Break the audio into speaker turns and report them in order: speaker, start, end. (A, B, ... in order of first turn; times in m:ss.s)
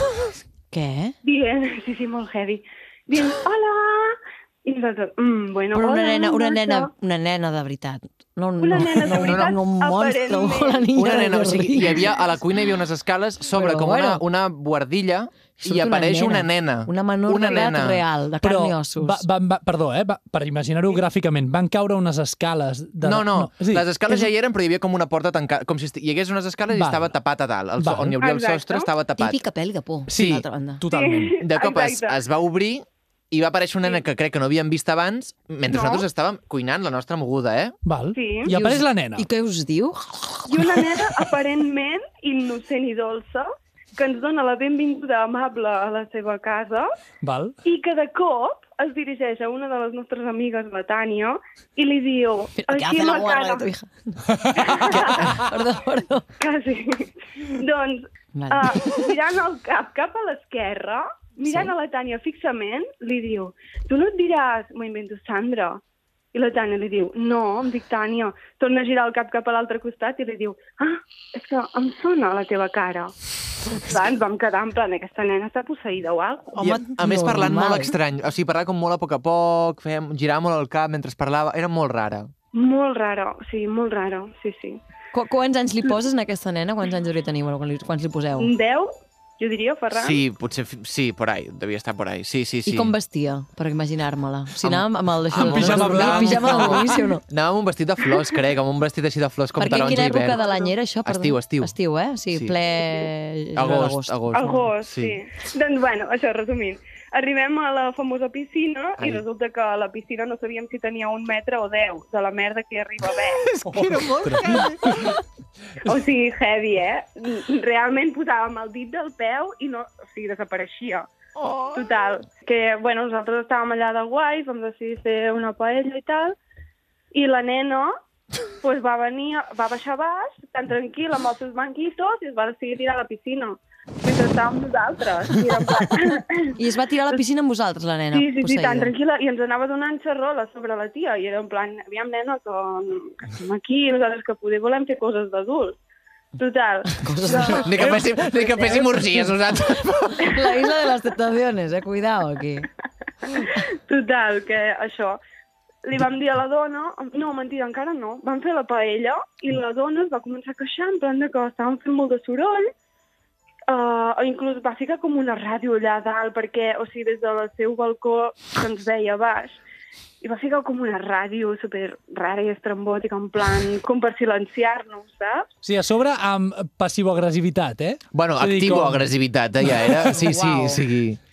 0:00.7-0:01.2 A
0:01.2-0:06.9 B
0:05.7-0:12.1 A
0:08.6-0:11.1 B
0:09.0-0:09.6 C
0:10.9-0:18.0 C
0:13.5-0:14.2 A
0:15.6-0:19.2 A
0:18.4-0:23.9 D
0:23.0-0:29.4 C
0:26.7-0:27.1 D
0:27.8-0:28.2 D
0:28.2-0:28.9 B
0:29.2-0:30.8 A
0:30.1-0:30.4 C
0:30.8-0:31.4 D
0:30.9-0:32.2 B
0:31.4-0:37.8 C
0:35.7-0:36.0 B
0:37.8-0:39.2 D
0:38.1-0:38.5 B
0:38.5-0:40.6 A
0:40.5-0:46.9 B
0:47.2-0:47.6 D
0:47.6-0:53.7 B
0:52.6-0:56.3 A
0:54.3-0:54.6 D
0:54.5-0:55.5 B
0:56.4-1:05.8 B
0:58.3-0:59.0 A
1:01.4-1:01.7 A
1:06.3-1:13.1 B
1:13.7-1:16.8 B
1:16.6-1:17.9 A
1:16.6-1:22.3 C
1:22.5-1:24.8 B
1:25.1-1:28.5 A
1:28.4-1:30.2 B
1:29.9-1:32.9 C
1:32.6-1:37.2 A
1:34.6-1:40.4 C
1:35.3-1:37.0 D
1:39.6-1:44.6 A
1:39.6-1:40.7 B
1:41.0-1:41.7 C
1:43.6-1:45.2 C
1:44.3-1:53.5 B
1:49.0-1:49.2 C
1:53.1-1:55.2 C
1:53.7-1:55.1 D
1:55.8-2:01.1 B
2:01.4-2:02.0 C
2:01.7-2:06.4 B
2:07.1-2:08.0 B
2:08.6-2:16.6 B
2:16.6-2:18.9 A
2:18.1-2:25.8 B
2:26.4-2:28.9 B
2:27.0-2:27.7 A
2:27.6-2:30.3 C
2:30.2-2:32.7 A
2:30.4-2:30.8 B
2:33.3-2:35.2 B
2:35.8-2:42.7 B
2:43.7-2:49.6 B
2:50.2-2:55.5 B
2:55.6-2:59.1 D
2:58.1-3:01.2 C
2:59.7-3:00.6 D
3:00.3-3:00.7 A